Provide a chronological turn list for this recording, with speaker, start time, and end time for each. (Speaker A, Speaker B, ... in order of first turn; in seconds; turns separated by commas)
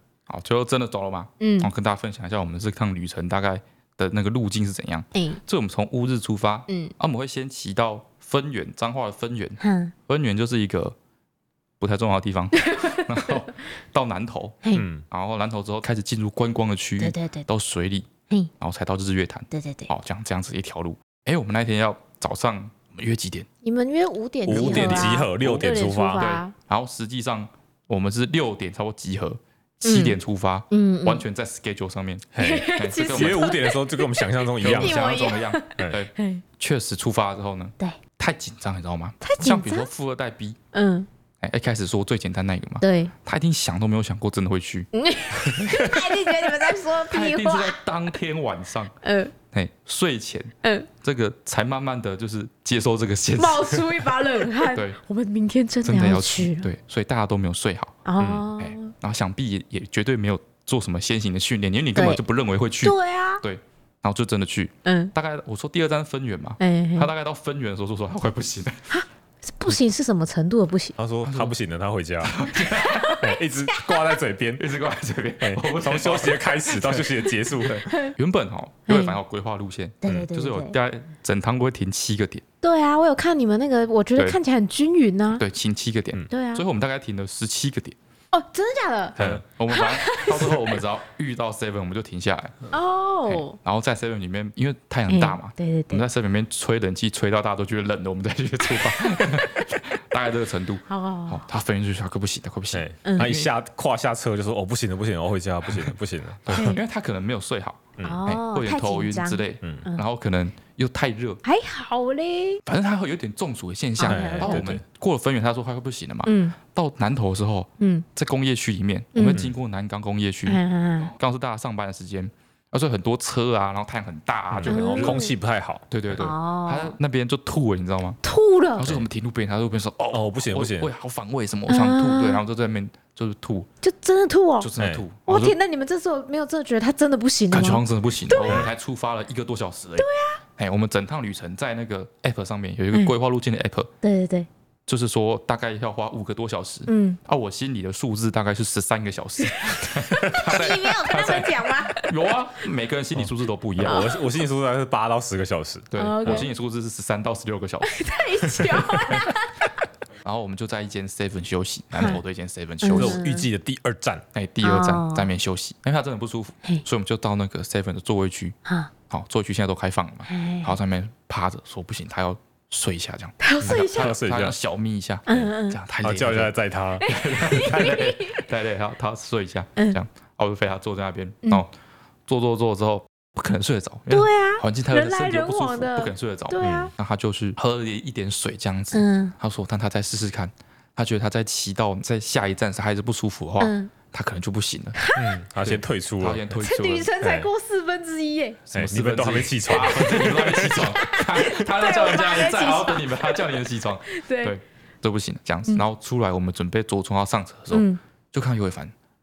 Speaker A: 0.3-11.0, Speaker B: 1.4-1.7, Speaker B: 5.1-5.4, Speaker B: 6.7-6.9, Speaker B: 9.6-9.9, Speaker A: 11.8-23.5, Speaker B: 12.6-13.3, Speaker C: 14.7-15.0, Speaker B: 17.0-17.5, Speaker B: 19.5-19.9, Speaker B: 23.6-26.5, Speaker C: 24.4-26.3, Speaker A: 24.5-25.3, Speaker A: 26.1-33.6, Speaker B: 29.8-30.2, Speaker B: 30.7-31.2, Speaker C: 32.3-35.0, Speaker B: 32.4-36.4, Speaker A: 34.6-40.6, Speaker B: 39.2-39.9, Speaker B: 40.7-41.1, Speaker A: 41.4-44.9, Speaker B: 42.8-43.1, Speaker B: 44.9-47.8, Speaker A: 45.5-46.0, Speaker A: 47.1-48.9, Speaker B: 49.0-49.3, Speaker A: 49.5-54.0, Speaker B: 53.4-56.7, Speaker A: 54.6-55.0, Speaker A: 55.8-58.0, Speaker B: 58.0-58.9, Speaker C: 58.2-58.5, Speaker A: 58.6-68.8, Speaker B: 61.9-62.2, Speaker B: 62.8-63.4, Speaker B: 64.8-65.1, Speaker B: 66.6-67.1, Speaker B: 68.9-70.9, Speaker C: 71.0-72.4, Speaker A: 71.2-71.5, Speaker A: 72.2-73.2, Speaker B: 72.5-74.1, Speaker C: 73.2-74.7, Speaker A: 74.6-82.4, Speaker C: 75.4-77.8, Speaker B: 77.8-78.1, Speaker B: 78.9-79.2, Speaker B: 80.0-80.8, Speaker B: 82.6-85.4, Speaker A: 85.3-88.0, Speaker B: 86.3-86.7, Speaker B: 88.3-89.2, Speaker C: 89.2-89.4, Speaker A: 89.2-92.6, Speaker B: 89.7-90.8, Speaker B: 92.7-93.6, Speaker A: 93.3-103.5, Speaker B: 95.1-96.0, Speaker B: 98.7-99.7, Speaker B: 100.9-101.4, Speaker C: 102.7-106.8, Speaker B: 103.0-103.3, Speaker A: 105.7-105.9, Speaker A: 106.5-111.4, Speaker B: 106.5-106.8, Speaker C: 108.0-108.2, Speaker B: 108.0-110.0, Speaker B: 111.4-112.6, Speaker A: 112.6-125.2, Speaker B: 114.0-114.7, Speaker C: 114.0-114.8, Speaker B: 116.2-116.5, Speaker B: 117.8-118.0, Speaker B: 119.1-119.4, Speaker B: 120.5-121.1, Speaker C: 124.5-125.8, Speaker B: 124.7-125.3, Speaker A: 125.9-128.2, Speaker B: 126.2-127.0, Speaker B: 128.2-128.9, Speaker A: 128.8-133.7, Speaker C: 130.1-130.9, Speaker B: 131.7-132.4, Speaker B: 133.8-134.7, Speaker A: 134.6-135.6, Speaker C: 134.8-135.0, Speaker B: 135.2-138.7, Speaker A: 137.5-143.9, Speaker B: 140.0-140.4, Speaker B: 144.0-144.5, Speaker A: 144.9-154.1, Speaker B: 146.9-147.2, Speaker B: 149.4-152.1, Speaker C: 153.1-156.4, Speaker B: 153.8-154.3, Speaker A: 155.9-158.1, Speaker B: 156.0-156.5, Speaker B: 157.8-159.8, Speaker A: 160.2-163.2, Speaker B: 161.9-162.2, Speaker B: 162.8-163.5, Speaker C: 162.9-164.2, Speaker A: 164.3-168.6, Speaker B: 164.6-165.3, Speaker B: 168.7-168.9, Speaker A: 169.1-176.5, Speaker B: 170.3-170.8, Speaker B: 173.4-174.1, Speaker C: 173.6-174.6, Speaker B: 175.3-175.8, Speaker C: 176.0-177.1, Speaker B: 177.0-178.4, Speaker A: 177.1-181.7, Speaker A: 182.3-195.0, Speaker B: 184.1-186.9, Speaker C: 186.6-186.9, Speaker B: 188.9-189.3, Speaker B: 193.6-193.9, Speaker B: 194.9-195.4, Speaker C: 195.2-196.6, Speaker A: 195.6-197.1, Speaker B: 196.6-198.6, Speaker C: 197.2-197.5, Speaker A: 198.7-208.9, Speaker C: 198.7-200.9, Speaker B: 199.9-204.5, Speaker B: 207.7-208.0